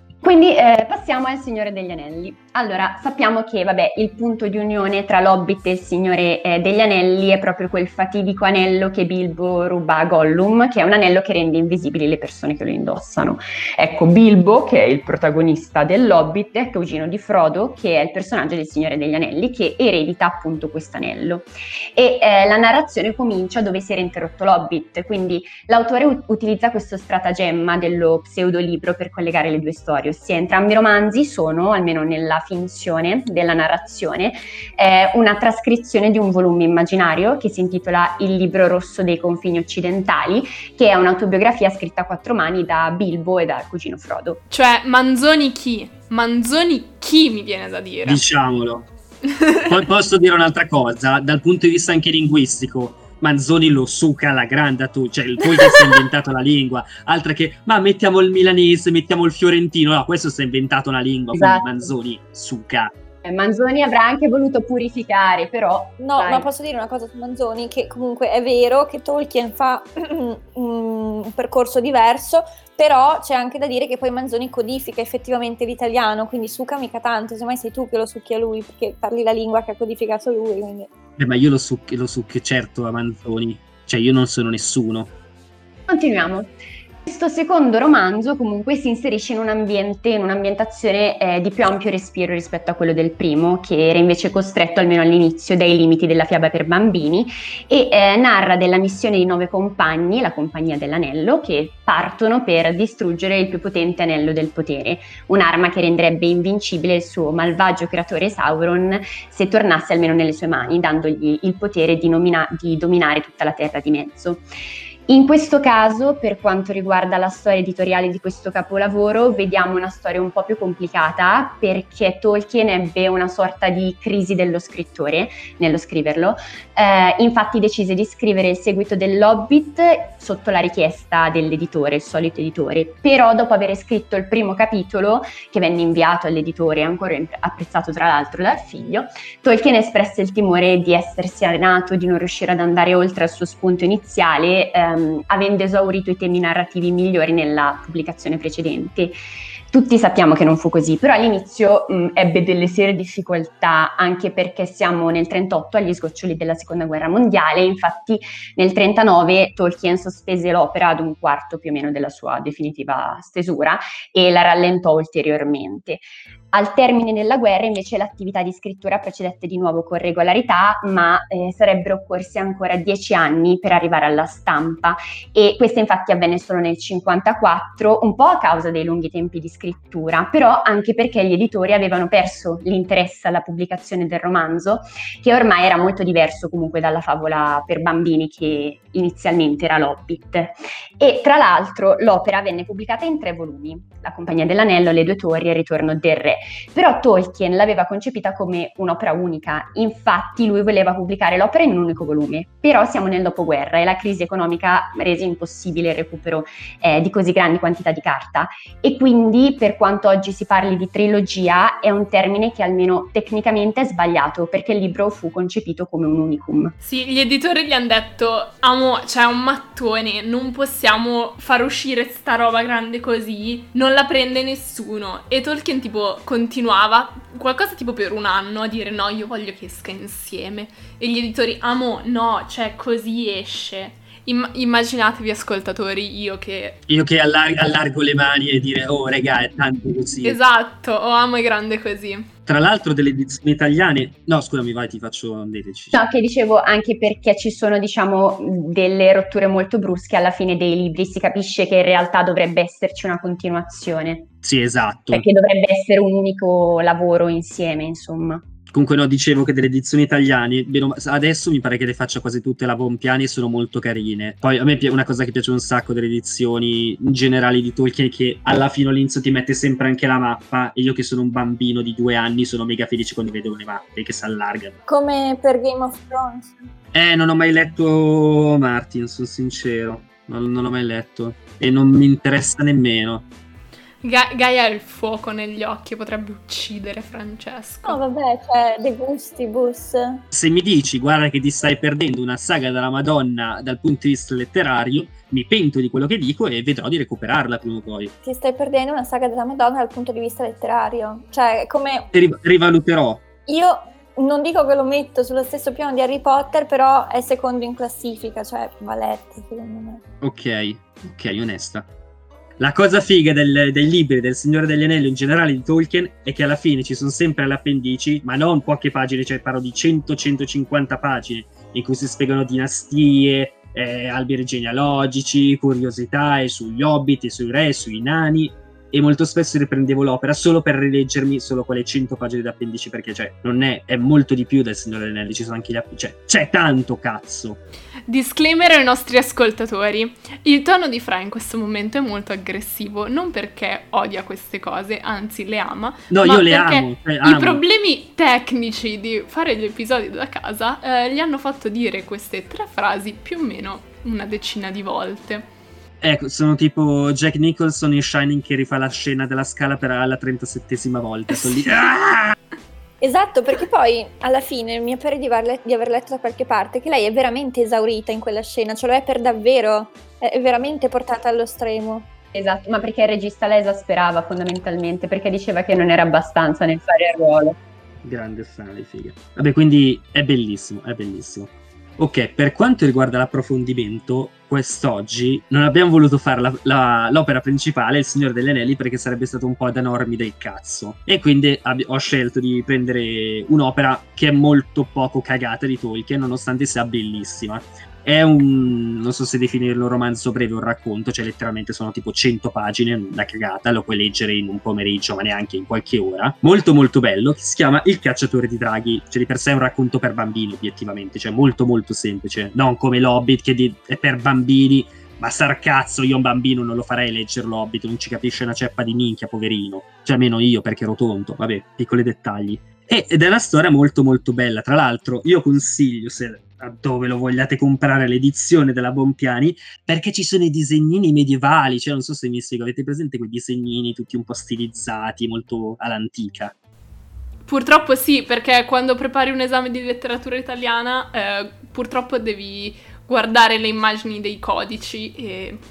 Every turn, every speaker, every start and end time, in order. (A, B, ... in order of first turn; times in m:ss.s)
0:00.2-0:44.4 A
0:44.5-0:48.2 B
0:48.0-0:48.9 C
0:49.3-0:49.6 B
0:49.7-1:02.9 C
1:01.3-1:01.8 A
1:03.2-1:06.5 A
1:06.0-1:20.9 D
1:21.2-1:25.1 C
1:25.9-1:26.5 A
1:27.1-1:54.4 A
1:55.1-2:29.2 A
2:29.7-3:36.8 A
3:36.8-3:56.8 B
3:56.9-4:00.4 C
4:00.2-4:02.3 B
4:02.5-4:06.0 C
4:05.9-4:14.3 A
4:14.4-4:15.2 C
4:15.1-4:18.4 A
4:18.7-4:34.8 C
4:34.9-4:36.7 D
4:36.9-4:43.3 C
4:44.0-4:48.0 B
4:47.8-4:50.2 D
4:50.3-4:58.1 C
4:58.2-5:02.1 D
5:02.1-5:03.2 C
5:03.5-5:10.0 D
5:10.2-5:11.9 C
5:12.6-5:37.6 C
5:38.1-5:55.5 B
5:46.1-5:47.6 C
5:56.0-6:02.4 C
6:03.0-6:12.1 D
6:12.4-6:17.6 A
6:18.0-7:16.5 C
7:17.4-7:25.6 B